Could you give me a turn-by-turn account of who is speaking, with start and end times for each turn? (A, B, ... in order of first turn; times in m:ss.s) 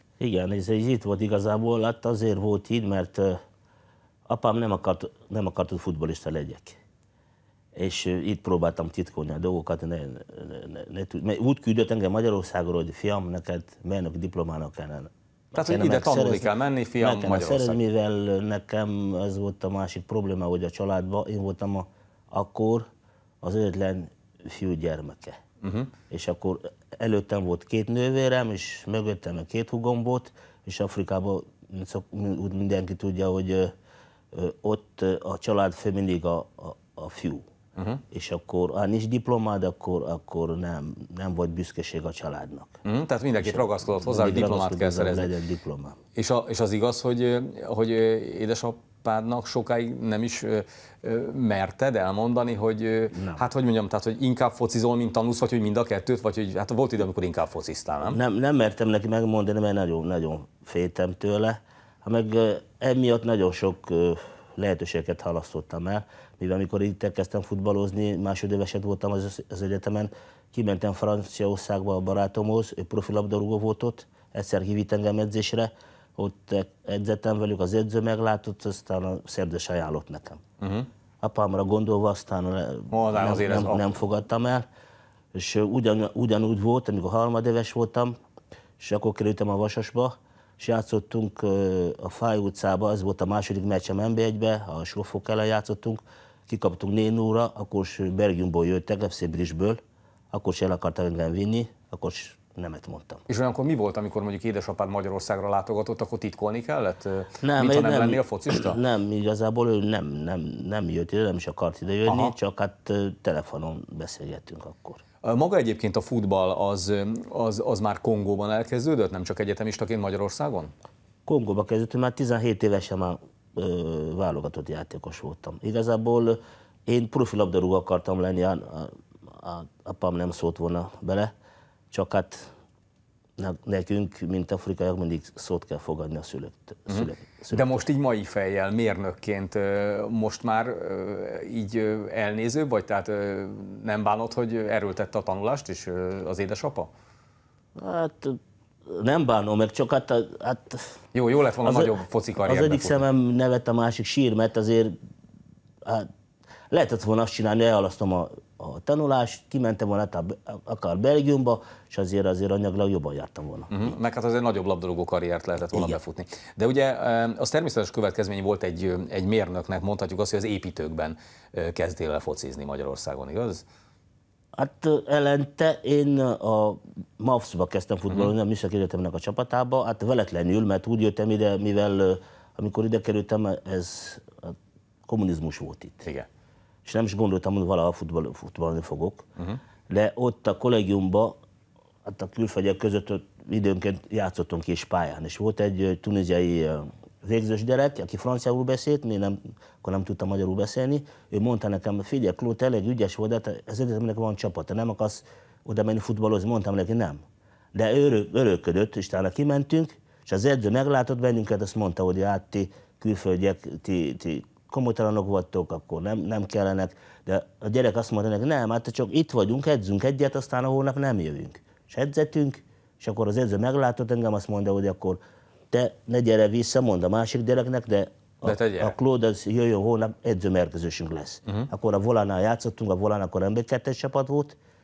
0:00.2-0:03.4 A
0:04.3-0:06.8 A
0:07.7-0:22.8 A
0:15.5-0:17.8 B
0:23.4-0:25.4 A
0:25.6-0:25.9 B
0:26.1-0:33.7 A
0:34.3-0:37.4 A
0:37.8-0:38.0 B
0:38.1-0:42.8 A
0:42.8-0:45.3 B
0:43.4-0:46.0 A
0:46.1-0:58.2 B
0:53.1-0:53.4 A
0:58.0-1:20.4 A
1:20.6-1:20.9 B
1:21.2-1:24.6 A
1:22.9-1:23.8 B
1:25.3-1:28.1 A
1:28.8-1:39.8 A
1:40.3-1:43.2 A
1:43.3-1:48.8 B
1:47.4-1:55.0 A
1:52.0-1:52.3 B
1:55.2-2:00.7 B
2:01.2-2:11.3 A
2:11.9-2:12.5 A
2:13.4-2:17.8 A
2:16.9-2:26.9 B
2:27.8-2:30.9 A
2:31.1-2:33.0 B
2:31.6-2:34.9 A
2:36.7-2:43.9 A
2:43.7-2:53.6 B
2:54.6-3:04.6 A
3:05.1-3:06.1 A
3:06.8-3:09.2 A
3:09.9-3:11.4 A
3:12.0-3:27.2 A
3:27.7-3:45.2 A
3:45.7-3:54.6 A
3:48.4-3:49.0 B